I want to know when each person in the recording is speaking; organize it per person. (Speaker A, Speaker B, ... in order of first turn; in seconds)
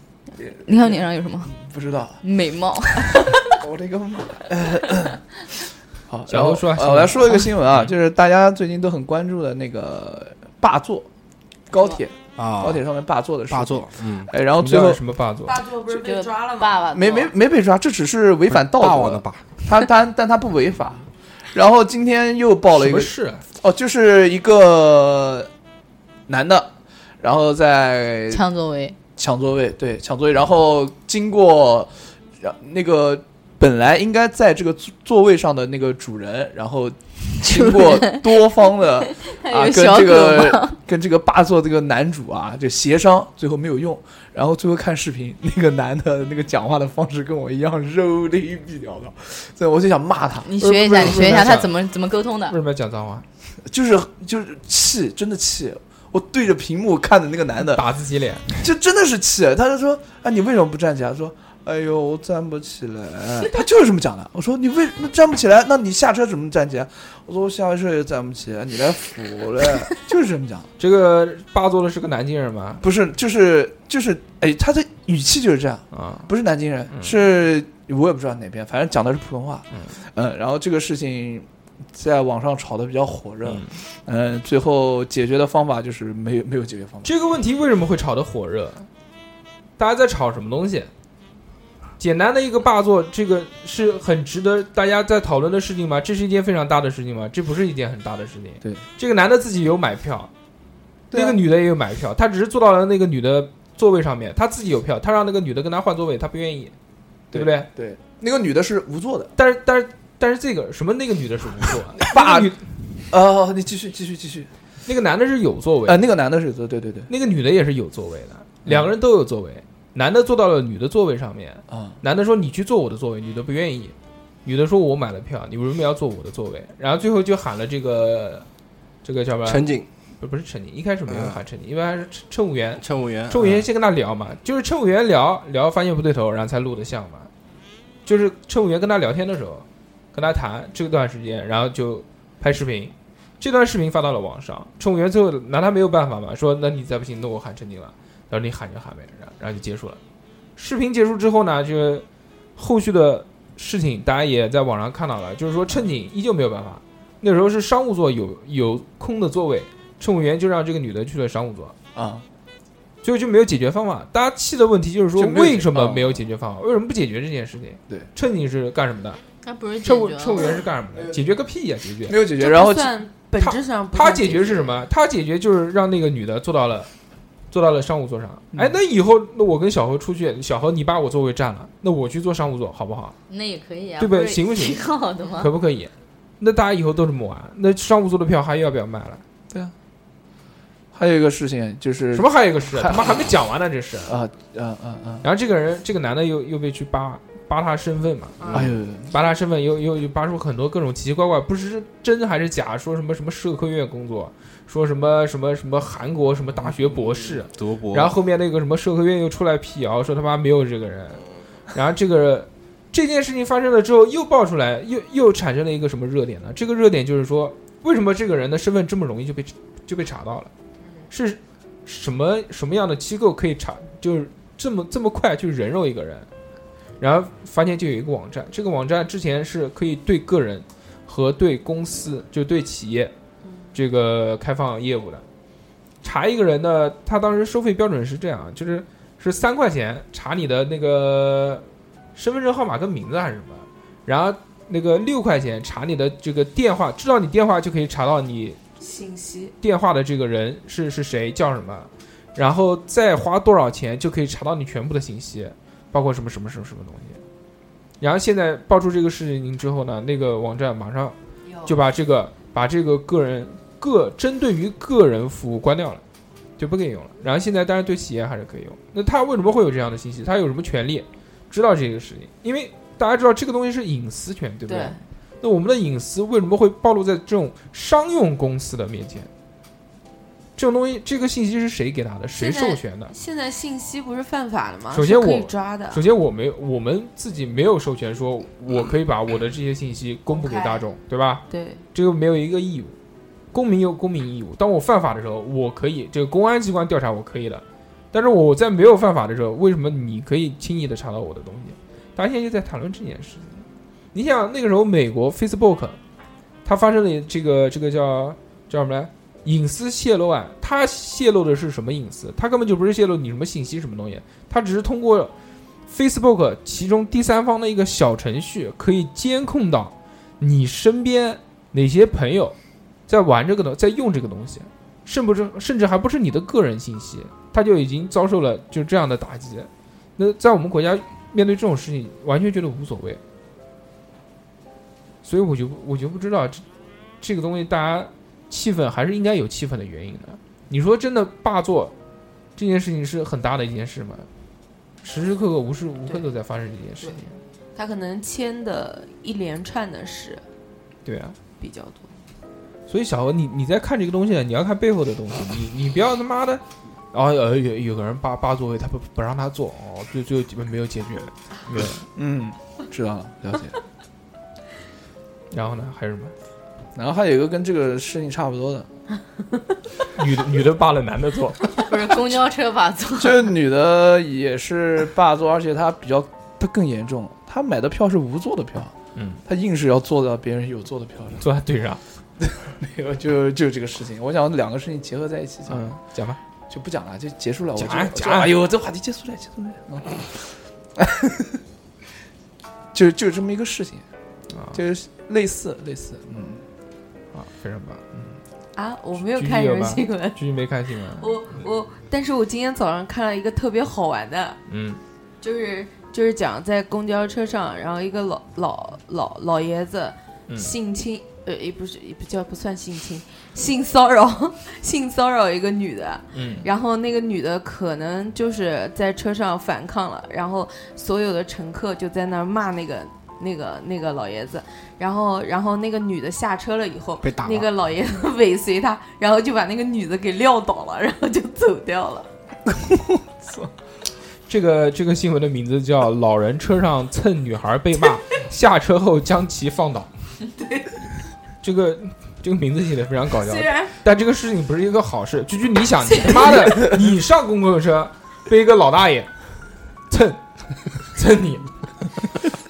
Speaker A: 0.4-2.2, 3.5-5.2, 6.1-11.1, 11.7-15.0, 16.9-25.5, 26.3-28.4, 29.2-51.5, 53.7-57.8, 58.6-70.7, 72.8-87.1, 101.1-101.4, 107.3-109.3, 112.0-112.5, 113.1-114.5, 115.9-117.1, 121.7-122.0, 161.9-162.2, 165.2-166.2, 172.1-172.9, 190.9-193.3, 194.1-195.3, 198.5-199.1, 362.2-363.8, 366.9-368.9, 373.2-381.4, 382.4-385.9, 386.7-391.6, 392.9-394.0, 394.7-396.6, 432.7-433.7
Speaker B: 0.7-1.5, 2.2-3.5, 15.9-17.3, 28.3-29.0, 37.5-38.2, 39.2-40.8, 50.4-52.6, 169.4-170.6, 183.3-185.5, 371.8-373.4
Speaker C: 6.3-7.9, 14.6-15.6, 22.8-23.4, 51.0-51.7, 52.5-53.3, 57.6-58.5, 70.8-72.8, 75.9-76.3, 76.9-77.2, 79.7-80.0, 83.5-83.8, 87.0-88.9, 89.8-90.9, 92.0-100.3, 101.1-106.7, 107.3-107.7, 109.4-112.7, 114.8-116.1, 117.1-128.5, 129.0-129.7, 130.2-137.3, 138.1-150.0, 150.6-152.1, 152.6-161.8, 163.0-169.2, 169.8-172.2, 173.4-176.9, 177.5-183.2, 184.0-184.8, 185.4-189.2, 192.1-194.1, 195.2-220.5, 221.1-226.3, 227.0-233.1, 233.8-235.2, 236.0-241.6, 242.2-248.6, 249.6-257.2, 258.0-266.0, 266.6-279.3, 280.6-283.1, 284.9-292.9, 293.5-306.0, 306.6-315.3, 315.9-322.6, 323.1-333.2, 335.2-336.6, 337.2-341.9, 342.6-344.3, 345.0-347.4, 351.1-351.4, 352.9-362.0, 365.5-366.3, 370.1-371.8, 379.1-379.4, 381.4-382.0, 385.7-386.4, 387.8-388.6, 397.3-398.1, 399.2-401.5, 404.7-405.0, 410.5-410.8, 416.3-416.7, 434.5-440.1, 441.6-449.3, 450.1-450.4, 451.0-451.7
Speaker D: 12.4-12.8, 13.5-14.3, 18.5-19.5, 129.4-129.9, 131.1-131.4, 132.8-133.7, 207.5-208.2, 427.2-427.7
Speaker E: 15.4-16.9, 172.3-174.8, 198.4-198.7, 233.4-233.8, 248.8-249.5, 261.5-261.8, 274.7-275.0, 282.3-286.0, 290.3-290.9, 291.5-291.8, 347.0-350.4, 351.6-352.1, 398.8-400.4, 401.2-404.6, 405.4-432.3, 443.4-443.9, 446.2-446.8